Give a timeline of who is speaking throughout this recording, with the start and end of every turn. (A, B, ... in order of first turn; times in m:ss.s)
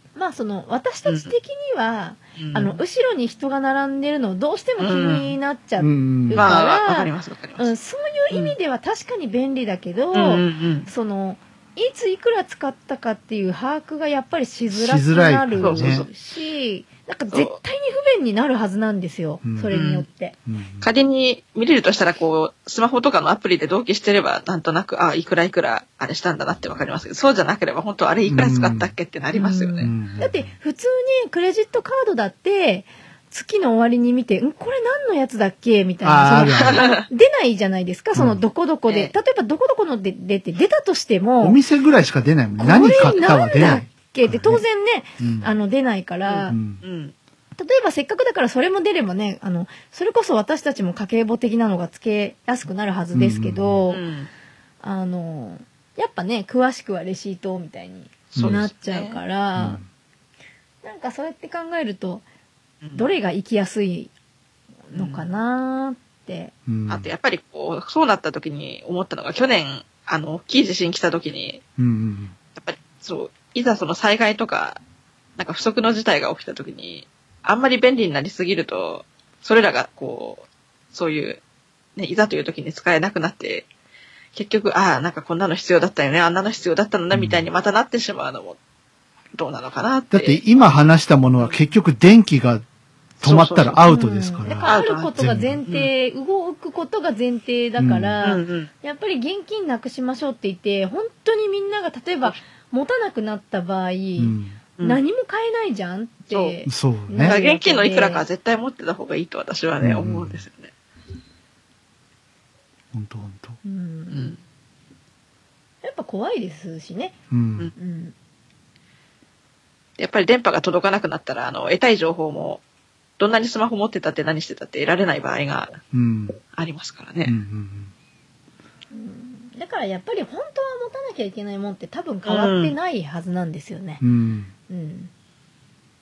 0:00.2-0:20.4 A
0:01.0-0:01.3 B
0:02.4-0:02.8 B
0:04.8-0:05.3 B
0:05.8-0:06.5 C
0:06.3-0:07.7 B
0:10.1-0:10.9 B
0:14.7-0:16.0 C
0:15.6-0:16.1 B
0:19.4-0:19.7 C
0:19.7-0:20.0 B
0:20.4-0:20.9 C
0:20.8-0:29.9 B
0:28.2-0:28.9 C
0:29.3-0:41.6 A
0:29.8-0:30.5 C
0:36.0-0:36.8 C
0:36.5-0:37.1 B
0:38.1-0:38.4 C
0:38.9-0:39.1 B
0:41.4-0:44.6 C
0:42.6-0:46.6 A
0:45.2-0:45.5 C
0:46.2-0:47.1 B
0:46.5-0:46.8 C
0:47.6-0:54.0 A
0:53.1-0:53.8 C
0:53.9-0:54.3 B
0:54.8-0:59.8 A
0:58.3-0:58.6 C
0:58.3-0:59.2 B
0:59.6-0:59.8 C
1:00.8-1:02.2 A
1:02.9-1:04.1 A
1:04.9-1:06.5 A
1:04.9-1:05.3 B
1:06.7-1:07.1 C
1:06.9-1:11.6 B
1:11.8-1:12.4 C
1:12.6-1:14.8 B
1:15.4-1:21.4 B
1:22.0-1:23.7 B
1:24.3-1:28.6 B
1:27.1-1:27.5 C
1:29.3-1:30.4 B
1:30.1-1:32.6 C
1:33.2-1:35.6 C
1:33.2-1:33.8 B
1:33.9-1:48.2 A
1:34.6-1:35.1 B
1:37.8-1:38.2 C
1:38.2-1:38.7 B
1:44.2-1:44.6 C
1:46.3-1:46.6 B
1:46.6-1:47.4 C
1:47.2-1:50.7 B
1:49.8-1:50.4 C
1:52.9-1:53.6 C
1:53.6-1:54.3 A
1:54.1-1:54.4 B
1:55.8-1:57.2 A
1:57.3-1:57.7 C
1:57.8-1:58.1 A
2:00.0-2:02.6 B
2:03.2-2:05.8 B
2:05.9-2:06.4 C
2:06.5-2:07.3 B
2:07.2-2:07.9 C
2:08.9-2:14.0 A
2:12.2-2:12.7 B
2:14.0-2:14.5 C
2:14.7-2:15.1 A